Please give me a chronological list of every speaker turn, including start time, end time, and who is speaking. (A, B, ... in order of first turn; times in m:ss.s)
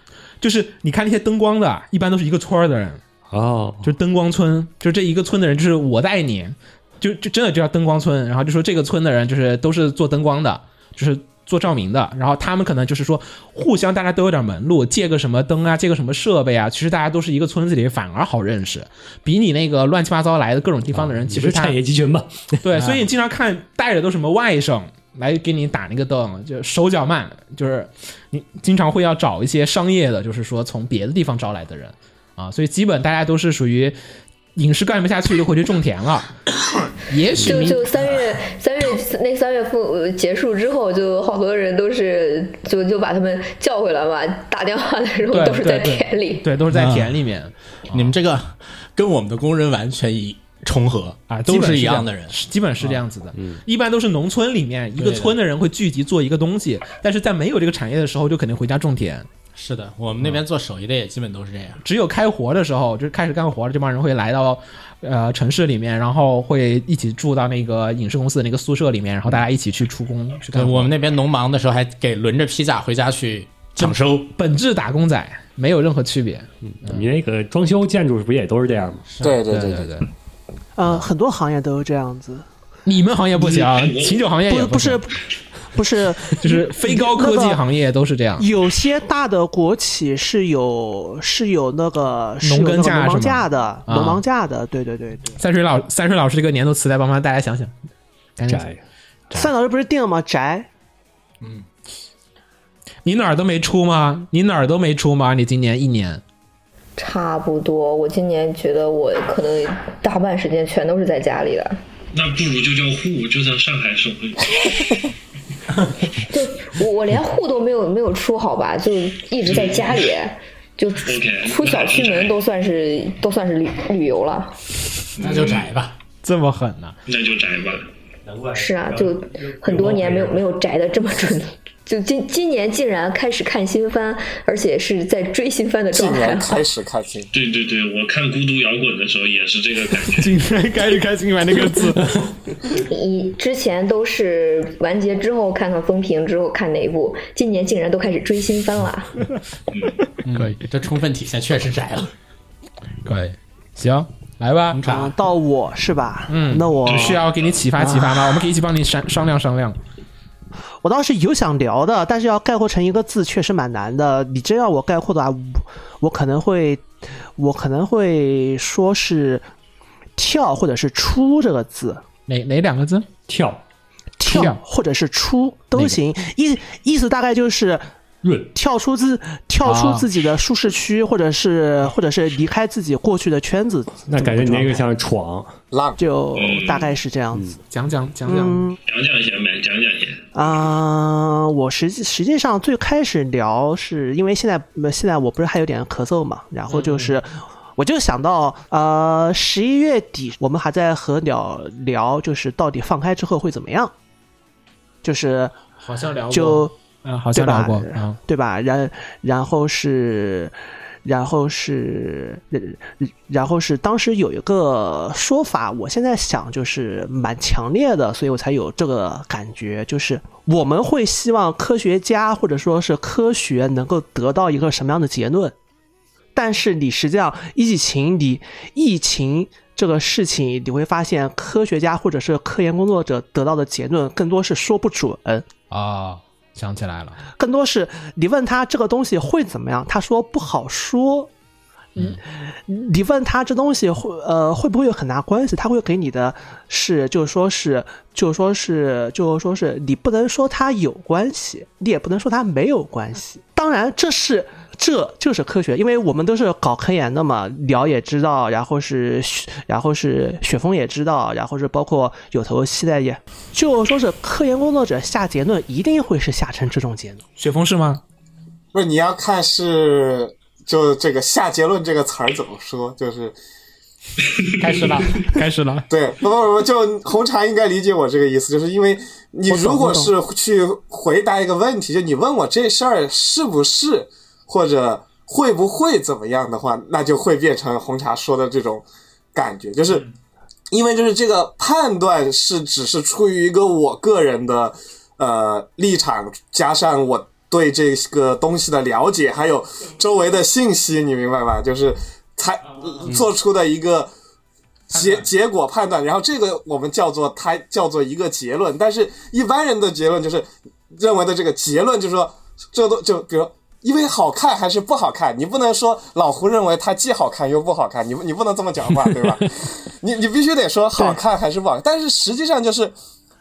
0:00.4-0:03.0 A
0:03.3-0:03.9 B
0:03.8-0:21.8 A
0:20.9-0:22.7 B
0:22.6-0:34.0 A
0:34.6-0:36.3 A
0:37.1-0:37.9 A
0:37.4-0:46.5 C
0:45.3-0:48.1 A
0:46.7-0:47.2 D
0:47.9-0:52.9 D
0:51.3-0:59.3 A
0:53.4-0:53.6 B
0:55.0-0:55.4 D
0:59.6-1:01.8 D
1:01.8-1:10.9 A
1:10.5-1:14.3 D
1:13.8-1:17.1 A
1:16.7-1:19.0 B
1:19.1-1:19.4 D
1:19.2-1:19.9 E
1:19.5-1:20.1 A
1:20.8-1:22.5 F
1:22.9-1:25.0 A
1:23.5-1:24.3 G
1:24.5-1:25.2 F
1:25.7-1:27.6 F
1:26.4-1:28.5 A
1:28.4-1:35.4 F
1:32.4-1:34.2 A
1:35.4-1:37.7 A
1:38.4-1:38.7 A
1:38.5-1:38.8 B
1:39.3-1:40.7 F
1:43.0-1:46.2 A
1:47.0-1:51.8 C
1:52.1-1:55.0 G
1:56.3-2:04.6 C
1:59.4-2:00.0 G
2:01.0-2:02.3 G
2:05.2-2:05.7 G
2:05.2-2:06.0 D
2:06.2-2:07.0 A
2:07.1-2:07.9 G
2:08.3-2:10.4 B
2:08.5-2:16.6 C
2:15.9-2:17.3 E
2:17.3-2:20.3 G
2:20.1-2:22.1 A
2:22.8-2:29.1 C
2:30.2-2:32.1 D
2:33.0-2:34.8 A
2:34.7-2:35.2 D
2:34.8-2:37.3 F
2:36.3-2:39.8 A
2:40.8-2:49.4 F
2:50.2-2:52.0 F
2:52.3-2:53.1 A
2:53.3-2:53.6 B
2:54.2-2:57.8 F
2:54.3-2:54.6 A
2:58.2-2:58.5 B
2:58.5-3:04.9 F
2:59.6-3:00.1 A
3:04.0-3:05.5 B
3:05.7-3:06.0 E
3:06.0-3:07.6 F
3:06.4-3:07.0 G
3:07.7-3:08.6 A
3:08.3-3:08.8 F
3:08.9-3:10.2 G
3:10.4-3:23.9 F
3:16.7-3:17.2 A
3:25.0-3:25.6 F
3:25.8-3:28.2 A
3:26.3-3:26.7 F
3:27.3-3:45.6 F
3:46.4-3:55.4 F
3:55.7-3:57.2 A
3:57.4-4:01.3 F
4:02.4-4:27.2 F
4:27.4-4:28.0 A
4:28.7-4:33.4 E
4:34.6-4:35.9 A
4:35.9-4:50.1 E
4:39.5-4:40.1 F
4:50.7-5:04.1 E
5:04.9-5:23.0 E
5:05.0-5:05.2 A